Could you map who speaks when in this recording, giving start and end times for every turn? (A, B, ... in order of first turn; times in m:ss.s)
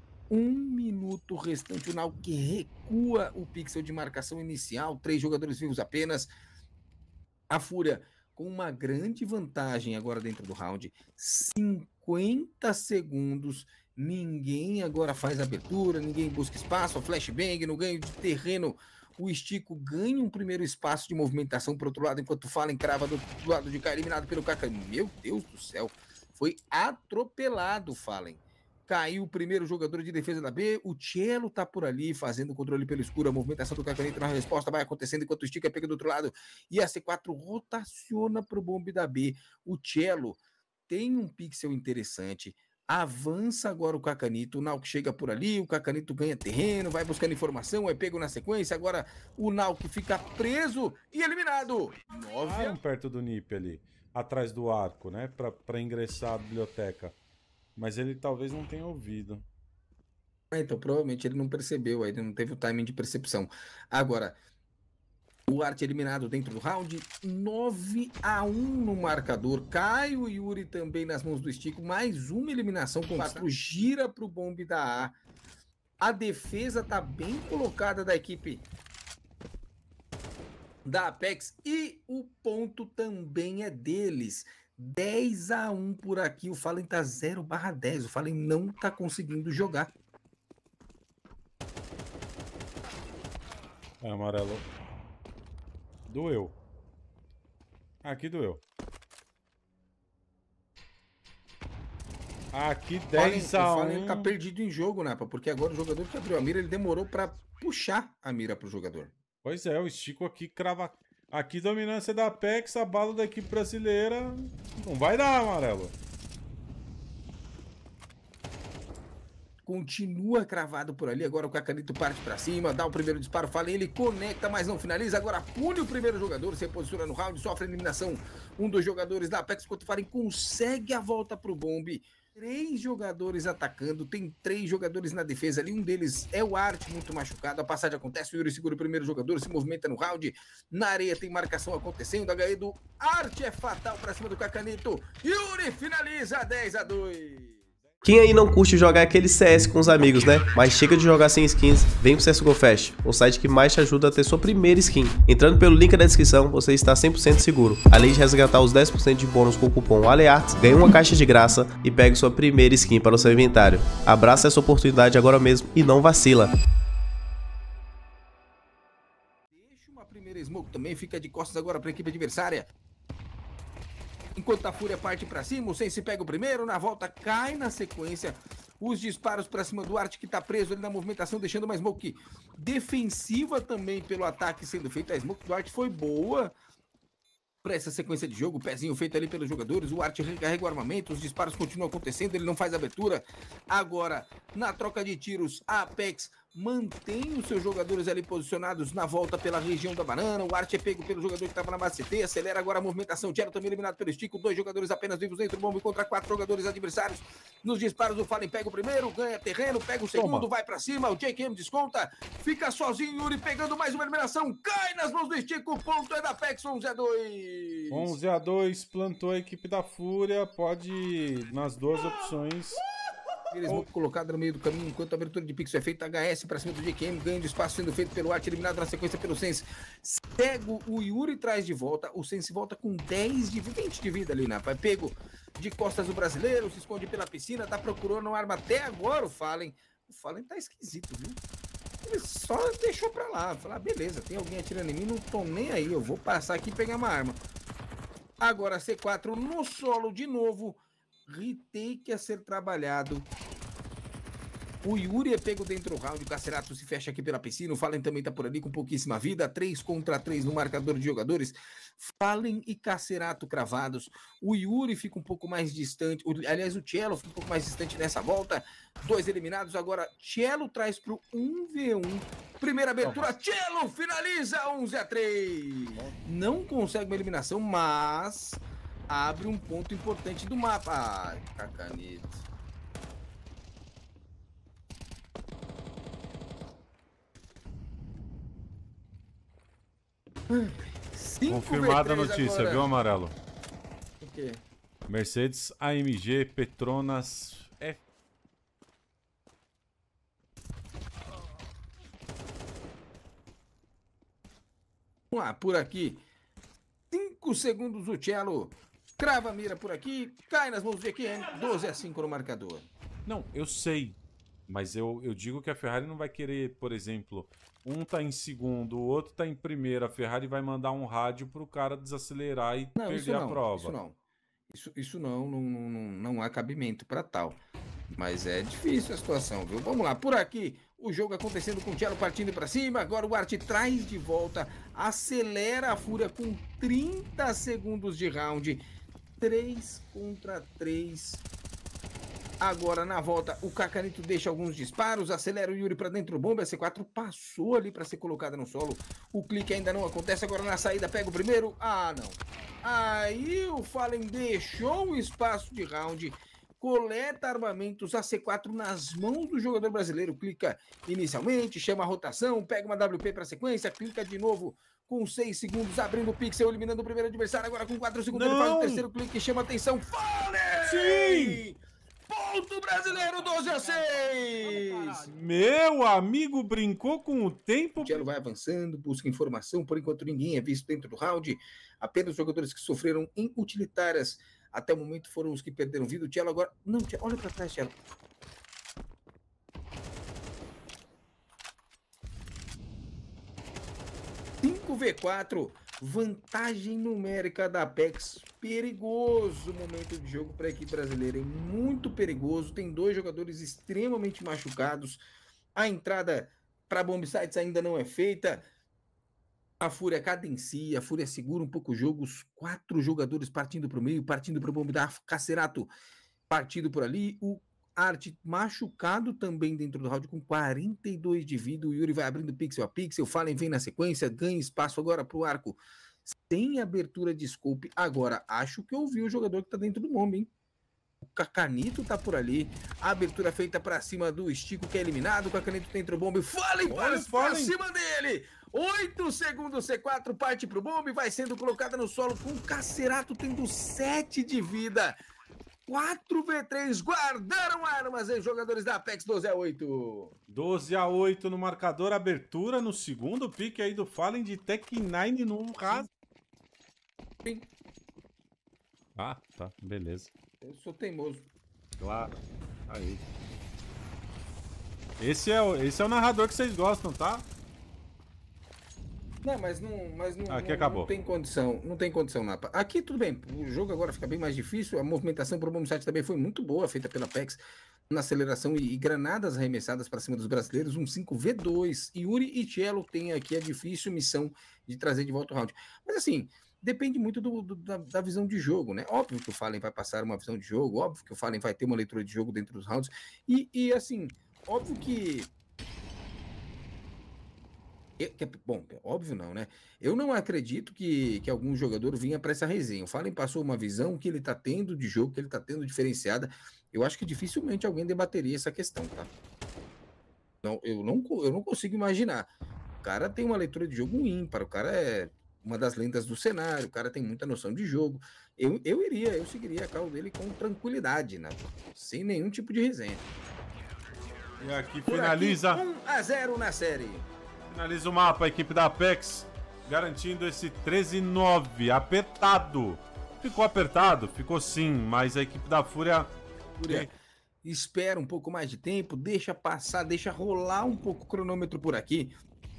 0:00.3-0:06.3 A
0:07.5-0:52.8 A
0:52.4-0:57.2 B
0:57.8-0:59.4 B
1:00.5-1:04.4 A
1:05.5-1:15.2 A
1:13.2-1:13.4 B
1:16.0-1:18.7 A
1:20.8-1:29.9 A
1:34.0-1:34.7 B
1:36.1-1:36.6 B
1:38.0-1:38.6 B
1:42.5-1:44.3 B
1:43.2-1:49.1 A
1:49.4-1:55.9 B
1:59.6-2:27.6 A
2:28.0-2:46.5 C
2:49.5-2:52.7 A
2:54.4-3:06.5 A
3:07.6-3:38.2 A
3:30.2-3:30.5 B
3:37.9-3:42.8 B
3:43.5-4:01.4 A
4:02.0-4:07.4 A
4:08.4-4:13.3 A
4:14.8-4:42.4 A
4:33.0-4:33.3 B
4:50.5-4:52.9 A
4:51.5-4:53.4 B
4:54.2-4:54.6 A
4:55.1-4:58.0 B
5:05.3-5:06.2 A
5:07.1-5:12.9 A
5:13.3-5:24.0 B
5:23.0-5:24.2 A
5:24.7-5:27.6 A
5:28.1-5:38.8 A
5:39.4-5:41.4 A
5:42.6-6:15.3 A
6:08.3-6:09.1 B
6:10.9-6:11.6 B
6:15.3-6:18.2 B
6:18.0-6:28.0 A
6:34.6-6:45.2 A
6:45.8-6:48.6 A
6:49.8-6:55.9 A
6:56.5-7:10.5 A
7:11.2-7:25.2 A
7:16.9-7:17.7 B
7:25.9-7:30.4 A
7:30.5-7:36.1 B
7:39.2-7:40.3 B
7:40.6-7:41.5 A
7:42.0-7:43.2 B
7:45.2-7:47.5 B
7:49.4-8:15.5 A
7:50.5-7:51.1 B
8:18.2-8:29.3 A
8:30.6-8:32.5 A
8:33.0-8:43.2 A
8:44.6-8:45.8 B
8:45.1-8:47.3 A
8:47.7-8:56.3 B
8:56.8-8:57.1 A
8:57.6-9:02.3 A